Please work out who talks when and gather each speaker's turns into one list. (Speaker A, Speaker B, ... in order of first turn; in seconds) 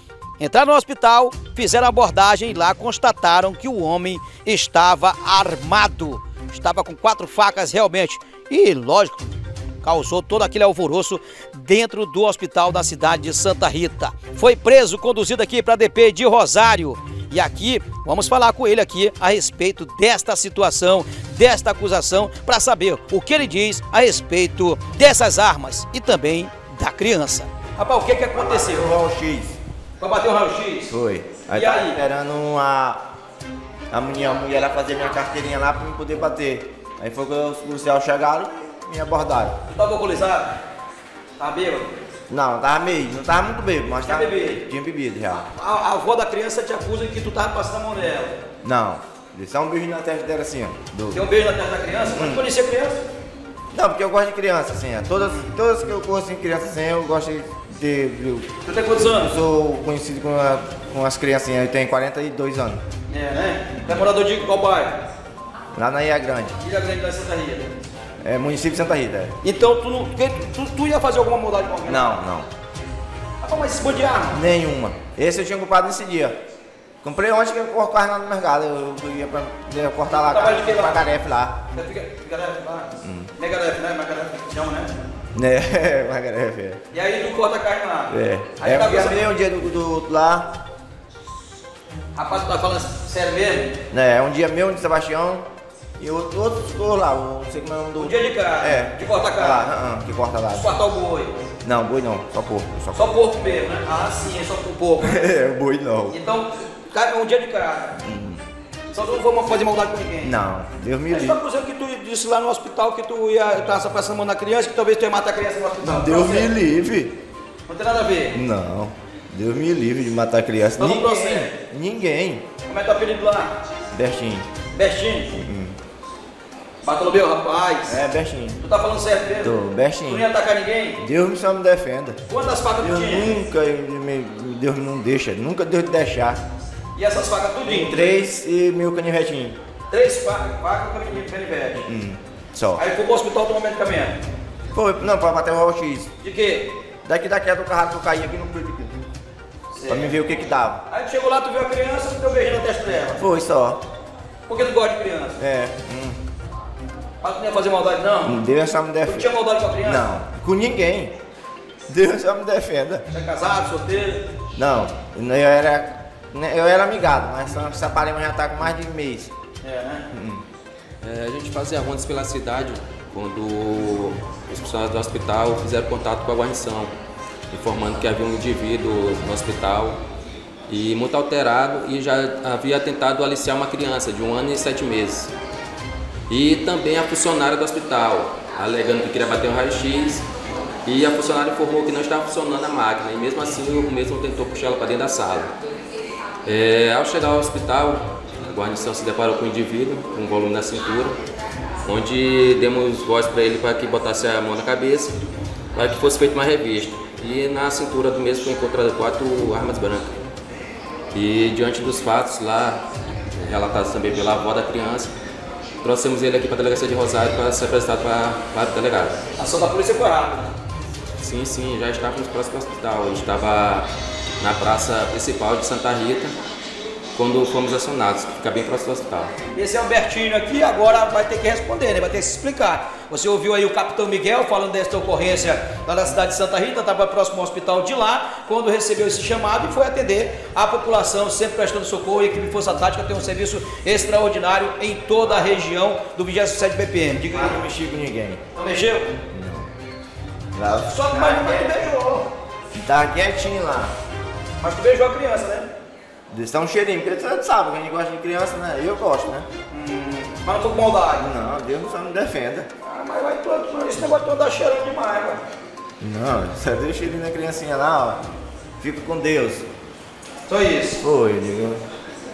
Speaker A: 0.4-9.3, 9.8-29.0, 30.0-30.9, 31.5-32.0, 39.7-40.6, 41.4-42.0, 44.0-44.6, 45.5-48.4, 51.1-53.0, 58.6-59.3, 63.1-65.0, 66.6-67.8, 69.4-72.1, 73.4-74.4, 80.3-81.1, 81.7-84.9, 86.9-89.2, 92.2-93.7, 98.0-99.7, 100.5-101.3, 102.9-105.3, 106.1-108.0, 108.9-110.3, 111.1-116.5, 117.7-118.4, 120.8-121.5, 122.7-123.5, 124.7-125.3, 126.8-128.0, 128.6-129.6, 130.1-131.0, 132.3-133.3, 136.9-138.1, 139.9-141.8, 142.8-144.2, 146.2-146.7, 149.8-150.1, 150.9-153.2, 154.5-155.4, 157.2-158.4, 159.0-160.1, 163.1-164.2, 169.6-170.0, 219.4-220.5, 229.5-247.6, 248.5-249.1, 250.9-251.9, 254.6-255.7, 259.7-261.2, 262.8-265.4, 270.5-271.0
Speaker B: 28.3-29.6, 30.9-33.0, 33.9-39.6, 42.3-45.5, 48.6-51.2, 52.1-52.4, 53.7-62.8, 65.7-66.5, 68.2-69.3, 71.8-72.5, 74.3-76.4, 77.0-81.6, 83.0-83.3, 85.3-86.8, 88.1-90.5, 93.9-95.5, 96.0-100.7, 101.6-103.1, 105.0-106.2, 108.0-108.4, 110.2-111.4, 115.8-117.2, 118.3-122.5, 123.9-124.5, 125.3-125.8, 127.8-128.6, 129.4-130.2, 131.0-132.2, 132.8-136.4, 137.6-139.6, 141.8-142.8, 144.7-146.1, 147.0-149.0, 149.8-150.8, 153.2-153.8, 155.4-156.2, 158.2-159.3, 159.8-161.1, 161.9-163.0, 164.5-169.3, 170.1-170.4, 247.3-248.4, 249.3-249.7, 250.5-253.9, 256.3-259.5, 261.2-262.7, 266.0-268.2, 268.8-269.6, 271.0-271.8
Speaker C: 171.0-176.9, 177.5-180.0, 180.7-185.3, 186.3-190.2, 190.8-195.5, 196.4-201.2, 201.8-205.2, 205.7-210.2, 211.1-212.8, 213.4-215.1, 215.8-219.2, 221.2-223.9, 224.4-226.3, 227.2-229.3